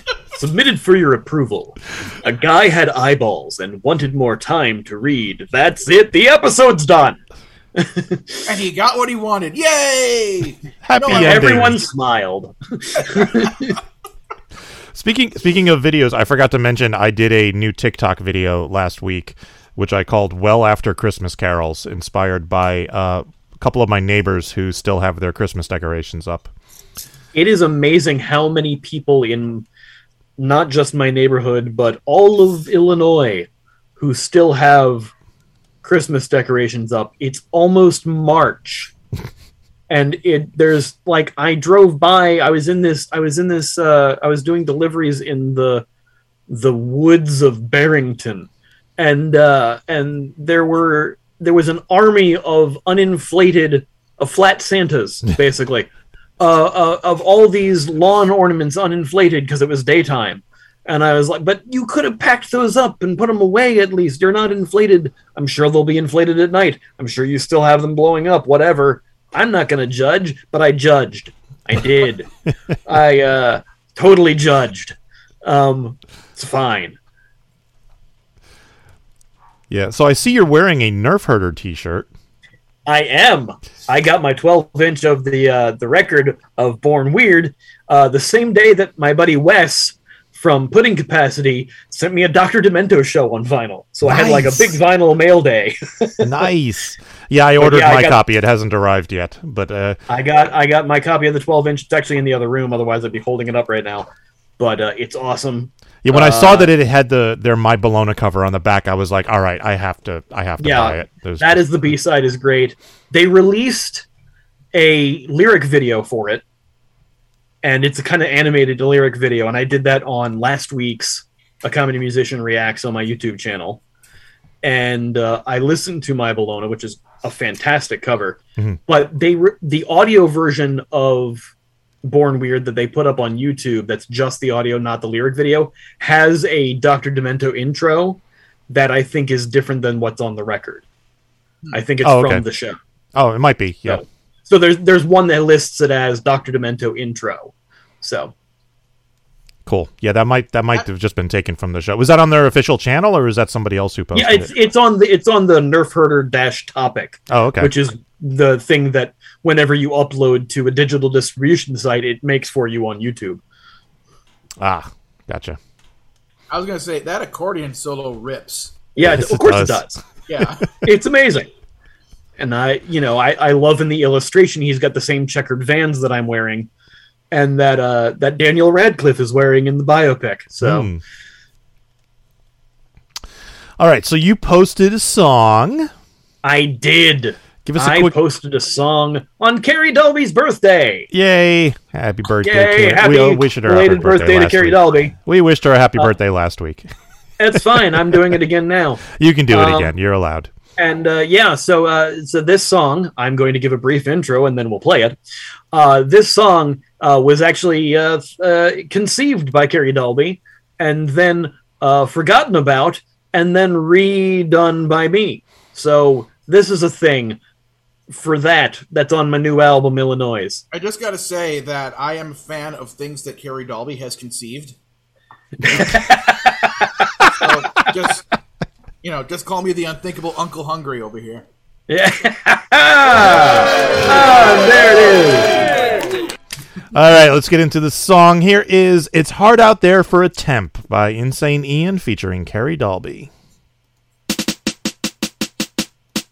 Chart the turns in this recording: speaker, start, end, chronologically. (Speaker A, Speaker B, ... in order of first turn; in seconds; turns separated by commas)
Speaker A: 0.3-7.2, Speaker A: 7.8-8.4, Speaker B: 8.4-11.7, Speaker C: 10.8-11.8, Speaker A: 11.1-13.7, Speaker C: 14.9-26.5, Speaker A: 27.3-29.6, Speaker A: 30.4-35.1, Speaker A: 35.8-38.9, Speaker A: 39.9-45.8, Speaker A: 46.5-72.3, Speaker A: 72.9-77.0, Speaker C: 79.7-82.1, Speaker A: 82.8-96.2, Speaker C: 94.0-94.8, Speaker C: 96.2-100.0, Speaker A: 97.6-98.2, Speaker A: 100.1-104.1, Speaker A: 104.6-106.7, Speaker C: 106.0-111.8, Speaker A: 110.6-114.0, Speaker A: 114.7-116.4, Speaker A: 117.6-123.8, Speaker A: 124.6-131.5, Speaker A: 132.0-140.8, Speaker A: 141.7-142.8, Speaker C: 142.0-142.4, Speaker C: 143.1-144.0, Speaker A: 143.8-148.3, Speaker C: 149.7-154.5, Speaker A: 154.1-163.4, Speaker C: 157.3-157.7, Speaker C: 164.6-165.6, Speaker B: 166.5-168.8, Speaker A: 168.9-170.0, Speaker C: 169.0-169.9, Speaker B: 170.3-170.7, Speaker A: 170.8-171.5, Speaker A: 172.4-176.7, Speaker A: 177.3-180.9, Speaker C: 180.6-181.0, Speaker C: 183.8-185.9, Speaker A: 186.4-191.1, Speaker C: 187.6-188.2, Speaker C: 191.1-196.9, Speaker A: 192.4-195.1, Speaker A: 197.4-199.9, Speaker C: 197.5-198.0, Speaker C: 199.2-200.5, Speaker A: 200.8-205.2, Speaker A: 205.7-217.4, Speaker A: 218.1-220.6, Speaker B: 220.7-224.8, Speaker B: 225.6-226.0, Speaker A: 225.6-227.9, Speaker B: 227.4-228.2, Speaker B: 229.0-231.4, Speaker A: 231.9-235.8, Speaker C: 236.9-243.3